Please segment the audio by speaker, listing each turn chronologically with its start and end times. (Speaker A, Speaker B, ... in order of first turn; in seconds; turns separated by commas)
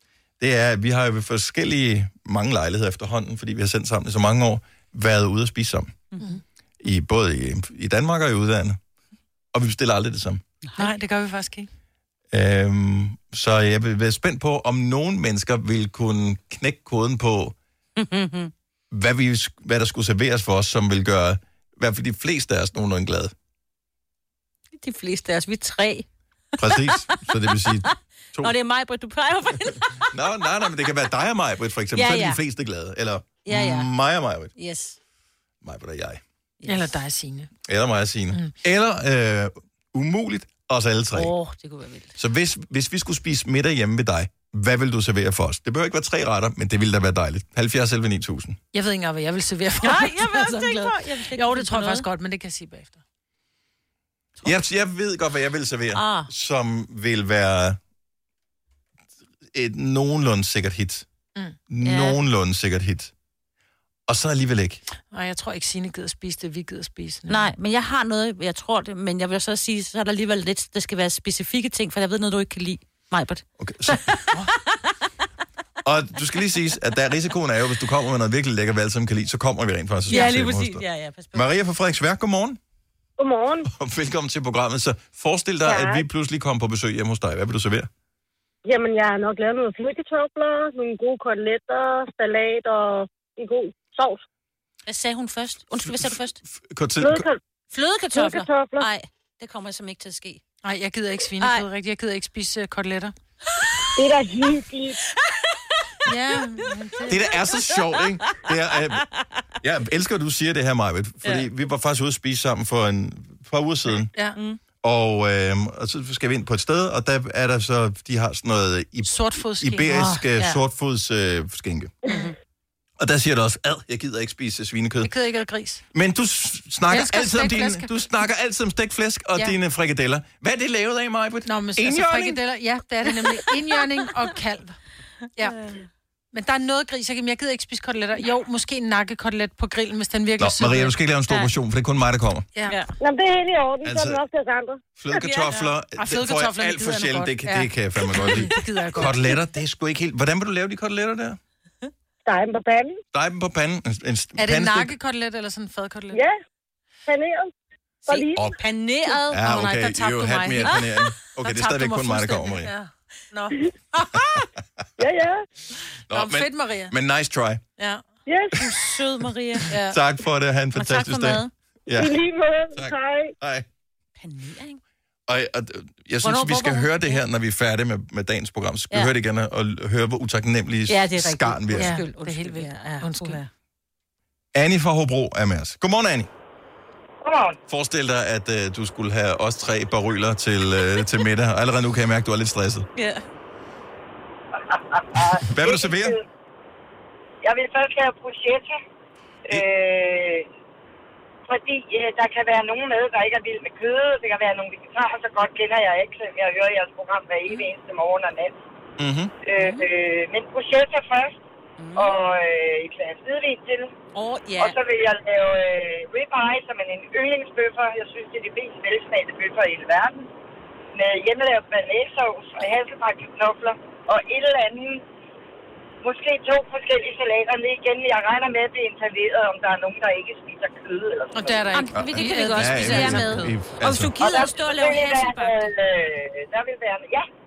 Speaker A: 0.4-6.0, Speaker A: 6.8-8.8, Speaker A: 9.5-10.4, Speaker B: 10.6-10.9, Speaker C: 10.8-11.7, Speaker A: 12.3-17.6, Speaker B: 18.0-18.5, Speaker A: 18.9-23.3, Speaker B: 24.7-26.1, Speaker A: 26.6-28.5, Speaker B: 26.6-30.1, Speaker A: 30.1-34.5, Speaker B: 31.9-32.4, Speaker B: 33.5-33.9, Speaker B: 34.6-35.0, Speaker A: 35.6-36.2, Speaker B: 36.6-36.9, Speaker C: 36.7-37.5, Speaker A: 37.6-41.3, Speaker B: 41.1-42.1, Speaker A: 42.1-48.6, Speaker C: 48.7-53.0, Speaker B: 49.8-52.0, Speaker A: 54.4-57.8, Speaker B: 55.9-56.3, Speaker A: 59.5-61.1, Speaker A: 61.7-63.1, Speaker B: 61.8-62.2, Speaker A: 64.1-64.8, Speaker C: 65.1-67.4, Speaker B: 67.3-74.8, Speaker A: 73.6-74.0, Speaker A: 75.8-82.6, Speaker B: 80.1-81.5, Speaker D: 83.2-83.7, Speaker A: 83.6-87.9, Speaker D: 85.6-86.0, Speaker D: 88.6-94.2, Speaker B: 94.9-96.4, Speaker A: 95.8-97.3, Speaker D: 97.0-97.4, Speaker B: 97.7-100.4, Speaker D: 98.1-98.9, Speaker C: 100.6-103.1, Speaker B: 101.4-101.7, Speaker D: 104.0-105.0, Speaker C: 106.0-107.2, Speaker A: 107.1-109.0, Speaker A: 109.6-114.1, Speaker A: 114.8-121.9, Speaker C: 119.1-120.6, Speaker A: 123.0-125.1, Speaker C: 125.0-125.8, Speaker A: 125.9-132.4, Speaker C: 126.9-127.9, Speaker C: 131.5-134.8, Speaker B: 135.5-135.8, Speaker C: 136.3-140.9, Speaker A: 140.4-142.5, Speaker D: 143.0-144.8, Speaker A: 143.8-144.2, Speaker A: 145.0-151.4, Speaker B: 145.1-145.7, Speaker C: 146.0-149.2, Speaker D: 152.2-153.0, Speaker A: 153.1-154.9, Speaker C: 154.4-156.2, Speaker D: 156.1-156.4, Speaker D: 157.1-157.5, Speaker D: 158.1-158.4, Speaker B: 158.1-160.8, Speaker A: 159.3-162.7, Speaker C: 159.5-160.8, Speaker C: 161.4-164.3, Speaker D: 165.0-165.4, Speaker A: 166.1-167.6, Speaker C: 166.1-166.9, Speaker C: 167.8-168.0, Speaker D: 168.3-168.6, Speaker B: 168.6-169.7, Speaker C: 169.7-170.0, Speaker A: 169.8-172.2, Speaker B: 170.8-171.5, Speaker D: 172.0-173.3, Speaker A: 172.7-173.7, Speaker B: 174.2-174.8, Speaker A: 175.3-182.0, Speaker B: 176.2-177.2, Speaker B: 180.9-183.5, Speaker C: 181.8-183.4, Speaker A: 184.5-186.3, Speaker E: 187.2-187.6, Speaker A: 187.7-192.8, Speaker B: 193.0-193.2, Speaker E: 194.7-196.2, Speaker A: 195.4-196.2, Speaker E: 197.4-198.8, Speaker E: 199.5-200.5, Speaker E: 201.5-208.6, Speaker A: 209.0-209.3, Speaker E: 209.4-211.4, Speaker B: 209.6-209.9, Speaker B: 211.8-212.2, Speaker E: 211.9-213.9, Speaker B: 214.1-214.8, Speaker E: 214.6-220.3, Speaker E: 220.9-225.0, Speaker E: 226.0-231.6, Speaker C: 231.3-233.5, Speaker B: 231.7-235.7, Speaker A: 231.9-234.2, Speaker E: 234.2-237.3